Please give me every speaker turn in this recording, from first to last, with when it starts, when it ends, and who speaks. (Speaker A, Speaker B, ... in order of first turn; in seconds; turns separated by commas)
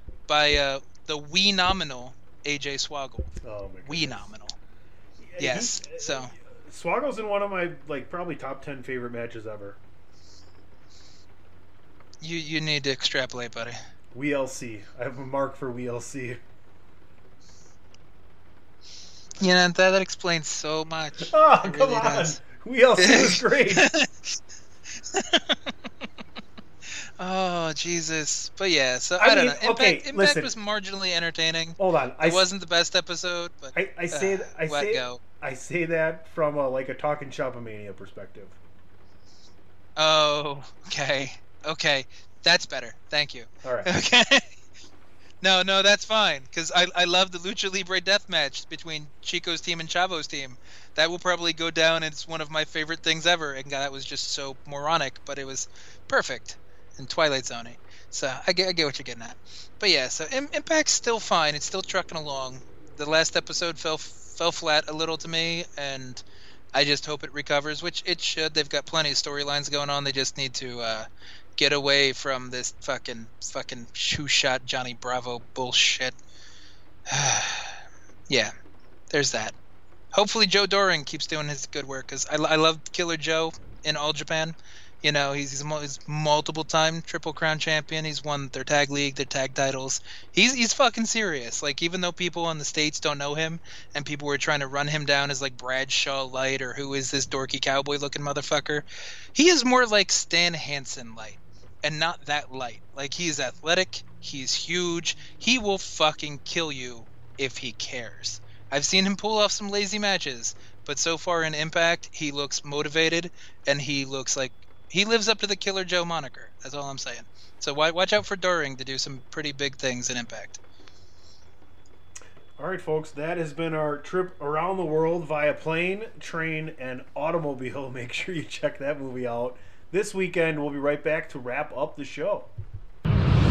Speaker A: 0.3-3.3, Speaker B: 3.4-4.2, Speaker A: 3.9-4.6, Speaker B: 5.2-9.8, Speaker A: 5.4-6.3, Speaker A: 12.2-13.8, Speaker B: 14.1-16.4, Speaker A: 19.4-22.4, Speaker B: 21.2-23.9, Speaker A: 23.0-24.4, Speaker A: 25.1-25.6, Speaker A: 27.2-35.2, Speaker B: 29.2-30.5, Speaker B: 31.8-32.5, Speaker B: 33.7-38.6, Speaker A: 40.0-44.5, Speaker B: 43.6-43.9, Speaker A: 45.4-66.2, Speaker A: 66.7-76.2, Speaker A: 77.1-77.8, Speaker A: 79.1-79.5, Speaker A: 80.1-120.6, Speaker B: 122.6-132.5